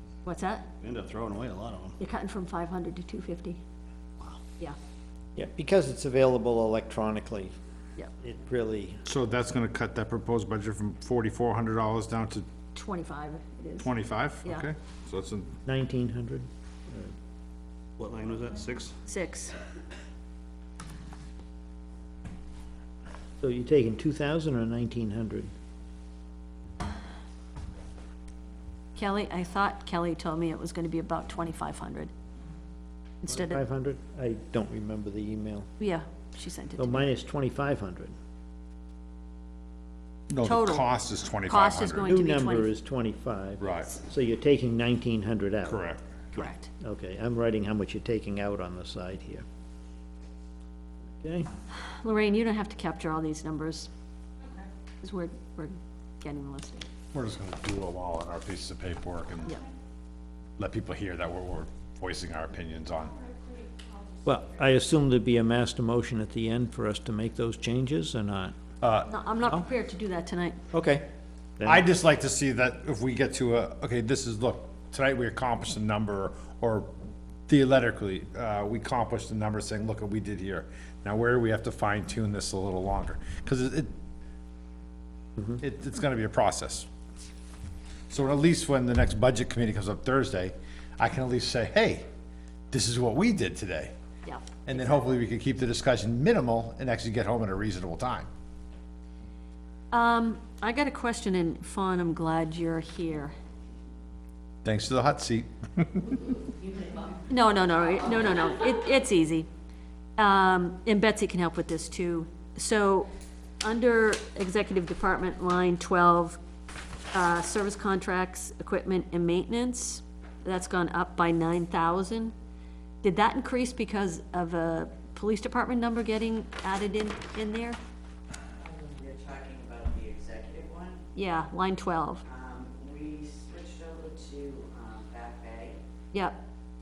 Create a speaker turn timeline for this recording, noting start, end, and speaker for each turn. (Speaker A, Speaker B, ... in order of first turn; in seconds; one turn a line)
Speaker A: 0.2-0.7
Speaker B: 0.8-2.0
Speaker A: 2.0-3.6
Speaker C: 5.3-7.5
Speaker C: 8.2-9.0
Speaker D: 9.0-12.4
Speaker A: 12.7-13.9
Speaker D: 13.8-15.6
Speaker C: 15.7-17.1
Speaker B: 18.0-18.9
Speaker A: 19.1-19.6
Speaker C: 23.4-25.5
Speaker A: 28.9-32.1
Speaker A: 33.2-33.6
Speaker C: 33.3-35.7
Speaker A: 35.8-37.0
Speaker C: 36.8-38.1
Speaker D: 40.3-42.2
Speaker A: 40.4-42.7
Speaker C: 42.0-45.8
Speaker D: 43.6-43.9
Speaker D: 45.6-46.0
Speaker A: 46.3-46.7
Speaker C: 46.3-49.4
Speaker C: 51.2-51.5
Speaker A: 51.9-53.9
Speaker A: 55.0-56.9
Speaker D: 57.1-59.6
Speaker D: 60.6-63.1
Speaker C: 64.2-68.5
Speaker D: 68.8-69.1
Speaker A: 69.1-70.6
Speaker C: 70.7-71.0
Speaker C: 71.6-71.8
Speaker D: 71.6-76.9
Speaker D: 77.5-83.9
Speaker D: 85.5-86.9
Speaker D: 88.1-92.0
Speaker D: 92.7-93.9
Speaker A: 94.2-95.1
Speaker D: 94.7-98.3
Speaker A: 99.9-103.3
Speaker D: 104.6-106.1
Speaker A: 107.3-109.5
Speaker A: 110.2-113.1
Speaker A: 113.6-116.4
Speaker A: 117.1-122.3
Speaker A: 123.0-127.8
Speaker E: 128.6-131.0
Speaker A: 131.1-132.2
Speaker E: 132.3-135.8
Speaker A: 136.1-136.4